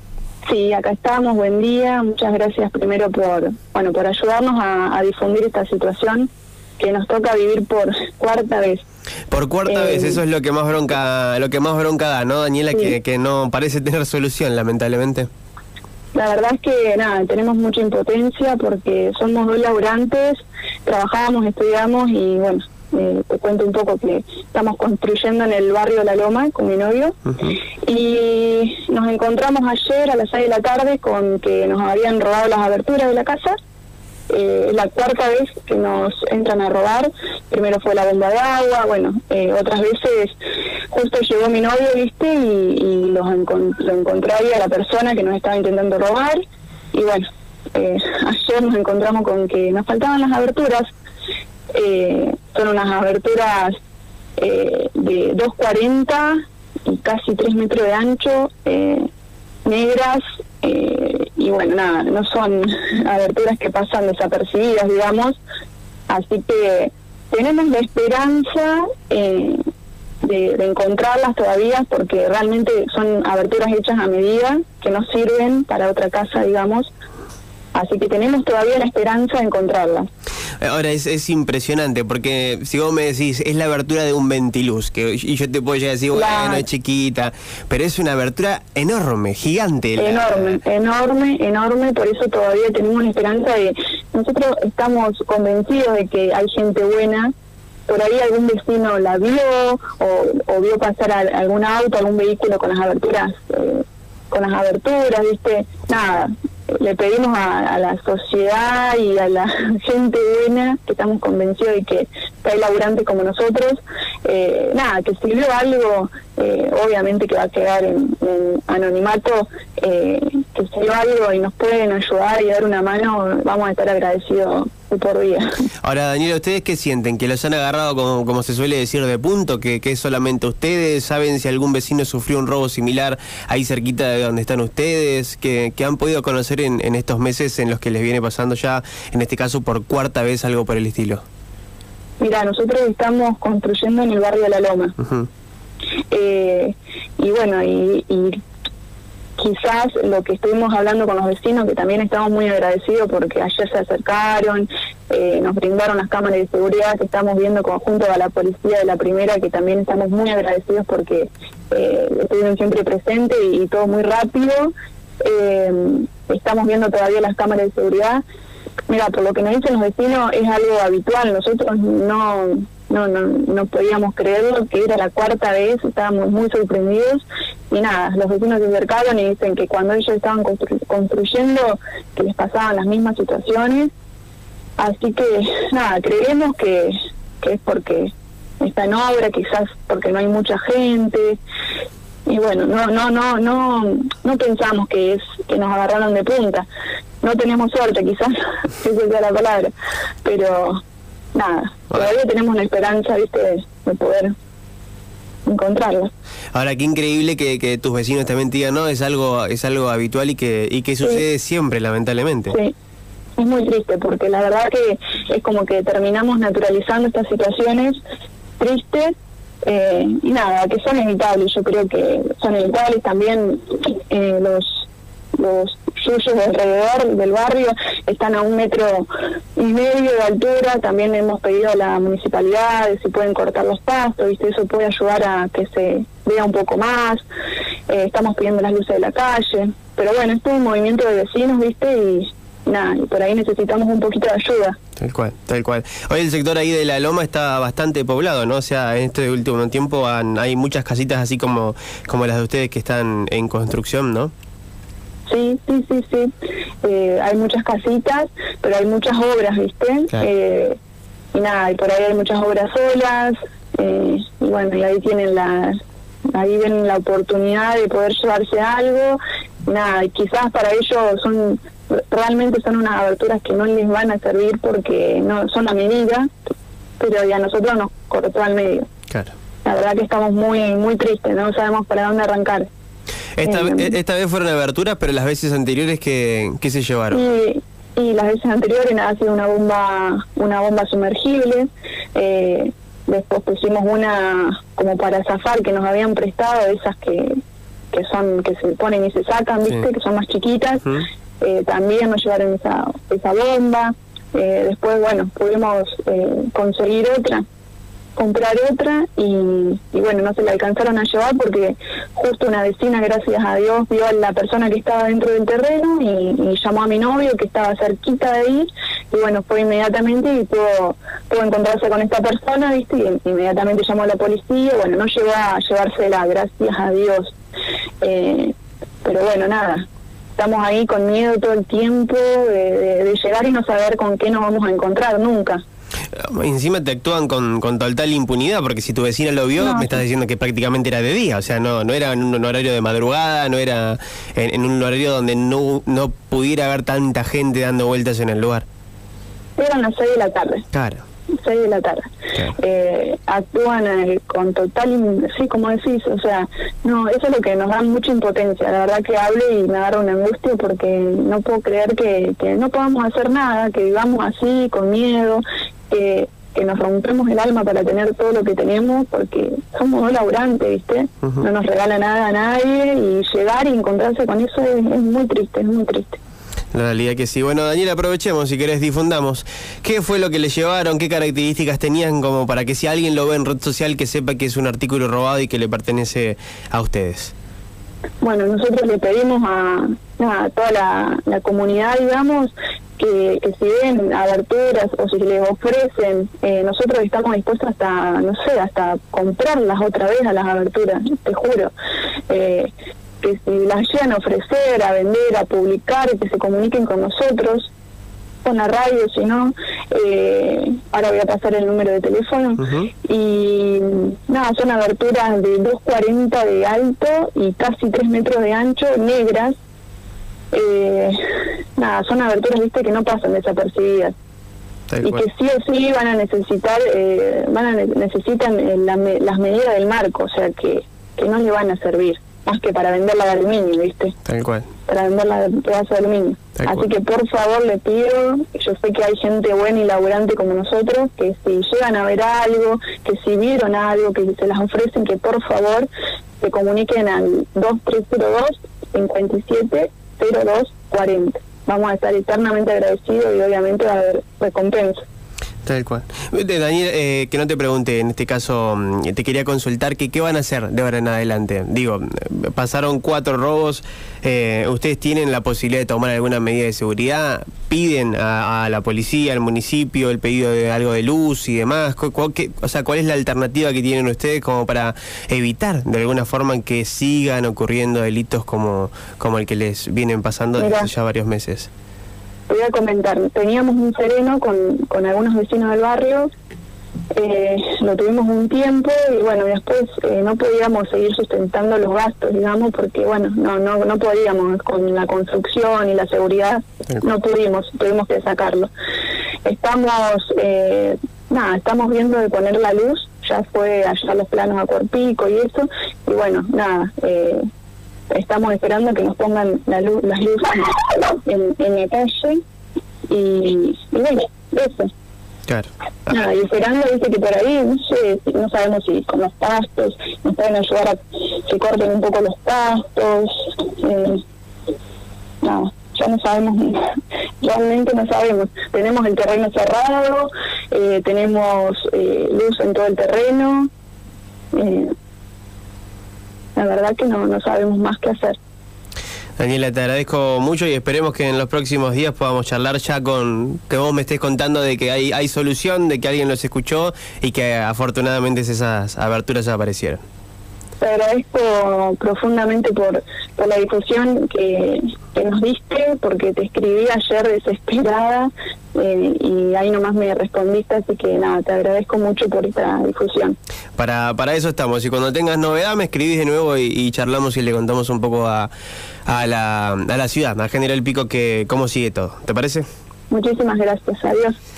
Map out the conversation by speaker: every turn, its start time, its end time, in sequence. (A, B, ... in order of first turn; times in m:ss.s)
0:00.5-0:08.8 A
0:09.3-0:15.3 B
0:09.7-0:10.2 A
0:16.2-0:27.2 A
0:27.3-0:27.6 B
0:27.8-0:33.6 A
0:34.3-0:40.4 A
0:40.9-0:46.4 A
0:46.9-0:50.8 A
0:51.7-0:53.8 A
0:54.4-0:59.1 A
0:59.6-1:05.4 A
1:06.1-1:09.6 A
1:10.2-1:16.9 A
1:17.8-1:20.1 A
1:20.6-1:30.6 B
1:26.1-1:26.7 A
1:30.0-1:37.3 A
1:37.9-2:05.7 A
2:05.8-2:21.2 B
2:22.2-2:25.0 A
2:25.0-2:25.3 B
2:26.1-2:28.4 A
2:29.4-2:48.2 A
2:48.9-3:03.9 A
3:04.8-3:11.4 A
3:12.3-3:16.7 A
3:17.2-3:19.7 A
3:20.2-3:20.8 A
3:21.4-3:24.4 A
3:25.5-3:26.1 A
3:26.5-3:32.6 B
3:33.4-3:38.0 A
3:38.6-3:57.2 A
3:57.9-4:04.8 A
4:05.0-4:14.3 B
4:15.3-4:16.3 A
4:16.8-4:20.8 A
4:21.3-4:25.8 A
4:26.3-4:36.3 A
4:37.0-4:38.9 A
4:39.6-4:42.7 A
4:43.4-4:47.2 B
4:43.4-4:43.9 A
4:47.1-4:57.4 A
4:57.9-5:07.4 A
5:08.2-5:27.4 A
5:28.0-5:35.6 A
5:36.2-5:48.7 B
5:39.6-5:40.0 A
5:49.6-5:50.7 A
5:50.7-5:51.0 B
5:51.4-6:16.2 A
6:16.7-6:27.3 B
6:28.2-6:41.7 A
6:42.3-6:47.7 A
6:48.4-6:59.6 A
6:52.6-6:52.9 B
7:00.5-7:01.2 A
7:01.8-7:04.2 A
7:04.9-7:05.2 B
7:05.0-7:14.2 A
7:14.3-7:14.7 B
7:14.9-7:25.9 A
7:16.6-7:16.8 B
7:26.4-7:35.0 A
7:35.6-8:01.7 B
8:00.6-8:00.9 A
8:02.5-8:06.3 A
8:07.2-8:18.7 A
8:19.4-8:27.4 A
8:28.1-8:32.4 A
8:33.1-8:34.9 A
8:36.1-8:44.2 A
8:45.4-8:53.7 A
8:54.5-8:54.9 A
8:56.6-8:58.4 A
8:59.4-9:10.0 B
9:10.8-9:23.4 A
9:23.8-9:28.5 B
9:29.1-9:32.7 B
9:33.1-9:34.4 A